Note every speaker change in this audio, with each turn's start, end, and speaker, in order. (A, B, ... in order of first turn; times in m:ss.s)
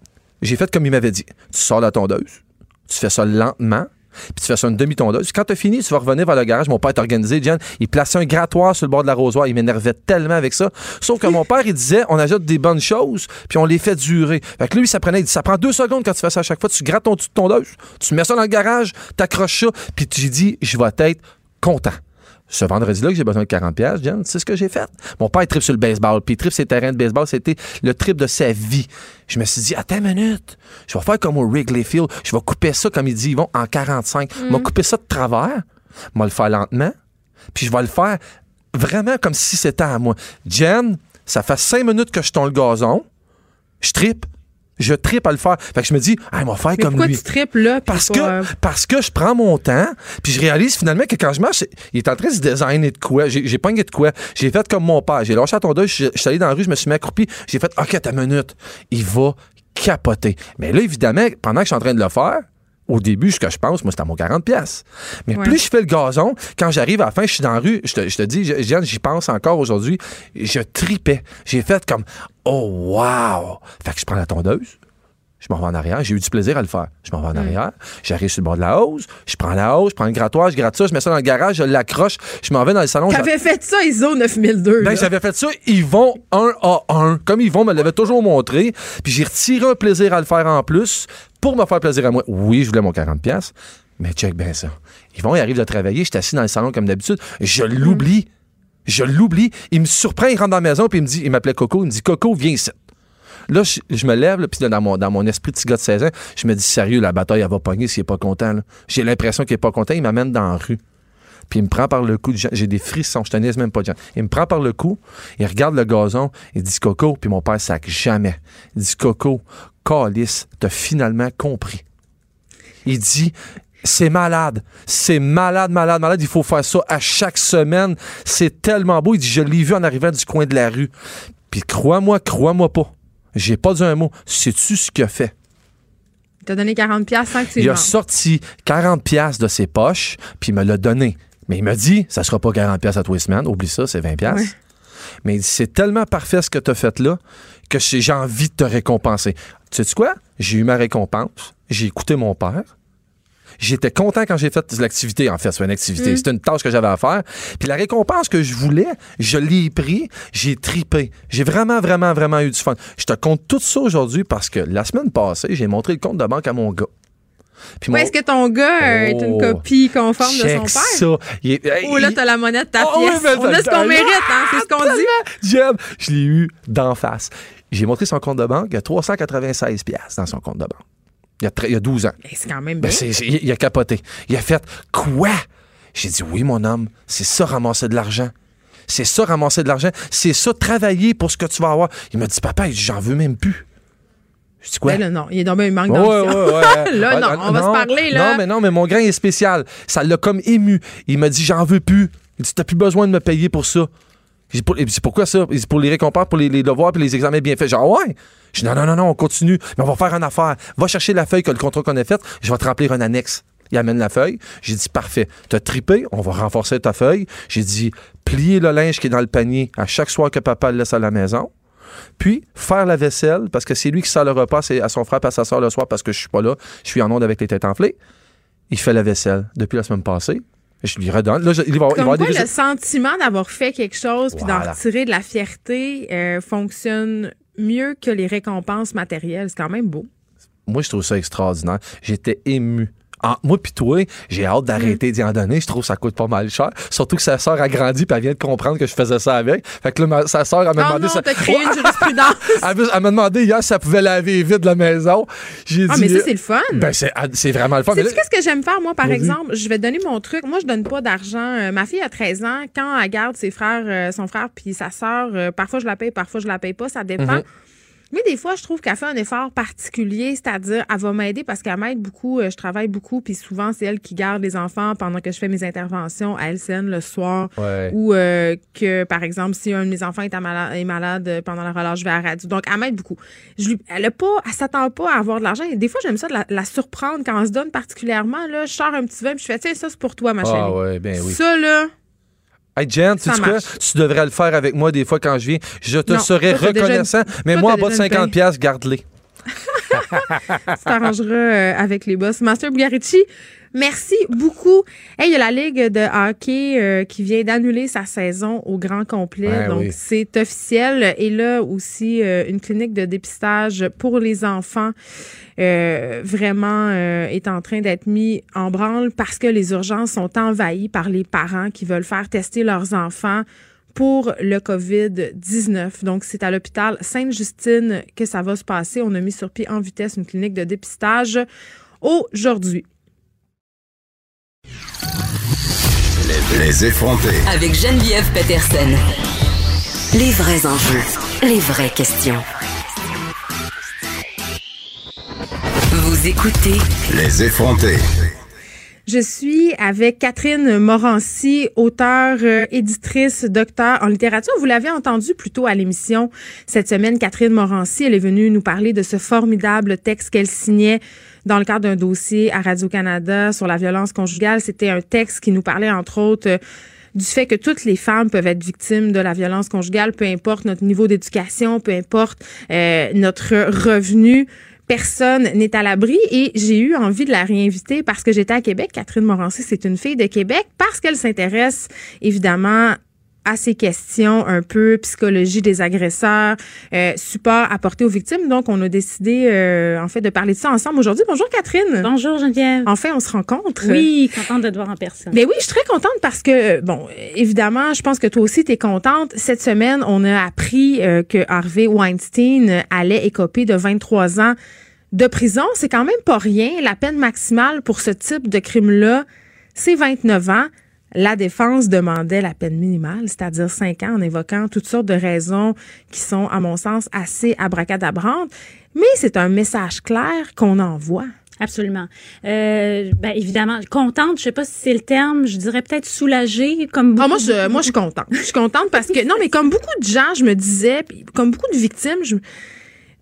0:00.4-0:35.6 A
0:34.4-0:34.7 B
0:36.1-0:37.0 A
0:37.5-0:38.2 A
0:38.8-0:43.0 A
0:43.8-0:44.3 A
0:44.8-0:47.2 A
0:46.8-0:48.5 B
0:47.9-1:14.8 A
1:05.3-1:05.6 B
1:15.4-1:23.3 A
1:23.1-1:25.1 B
1:24.8-1:38.3 A
1:38.9-1:42.8 A
1:43.5-1:50.8 A
1:51.5-2:01.8 A
2:02.9-2:10.9 A
2:11.5-2:15.3 A
2:16.4-2:17.9 B
2:17.6-2:24.5 A
2:24.3-2:24.5 B
2:25.2-2:32.7 A
2:33.6-2:46.9 A
2:36.0-2:36.2 B
2:47.8-2:48.1 A
2:47.9-2:51.0 B
2:48.8-2:49.6 A
2:50.2-2:52.2 A
2:51.8-2:55.2 B
2:52.8-3:00.8 A
3:01.4-3:02.1 A
3:02.2-3:03.0 B
3:02.8-3:05.4 A
3:05.9-3:08.3 A
3:08.9-3:13.6 A
3:14.6-3:15.0 A
3:14.9-3:18.4 B
3:15.9-3:23.9 A
3:24.5-3:41.5 A
3:42.2-3:48.0 A
3:48.7-3:52.5 A
3:51.9-4:00.1 B
3:54.3-3:54.8 A
4:00.7-4:18.2 A
4:10.8-4:12.6 B
4:15.9-4:16.9 B
4:17.9-4:27.4 B
4:19.0-4:19.4 A
4:28.1-4:51.9 B
4:37.6-4:37.9 A
4:50.4-4:51.4 A
4:52.8-4:59.0 A
4:53.2-4:53.7 B
4:56.1-4:58.3 B
4:59.7-5:14.9 B
4:59.9-5:00.6 A
5:09.5-5:09.9 A
5:15.6-5:31.4 B
5:32.0-5:32.9 B
5:36.2-5:37.4 C
5:37.5-5:39.0 D
5:40.1-5:42.4 D
5:45.9-5:46.9 D
5:47.1-5:48.0 C
5:49.1-6:06.6 B
6:07.1-6:32.1 B
6:32.0-6:32.9 E
6:32.9-6:34.1 B
6:33.8-6:35.4 E
6:35.3-6:44.6 B
6:45.1-7:01.3 B
7:01.6-7:07.9 E
7:07.2-7:12.4 B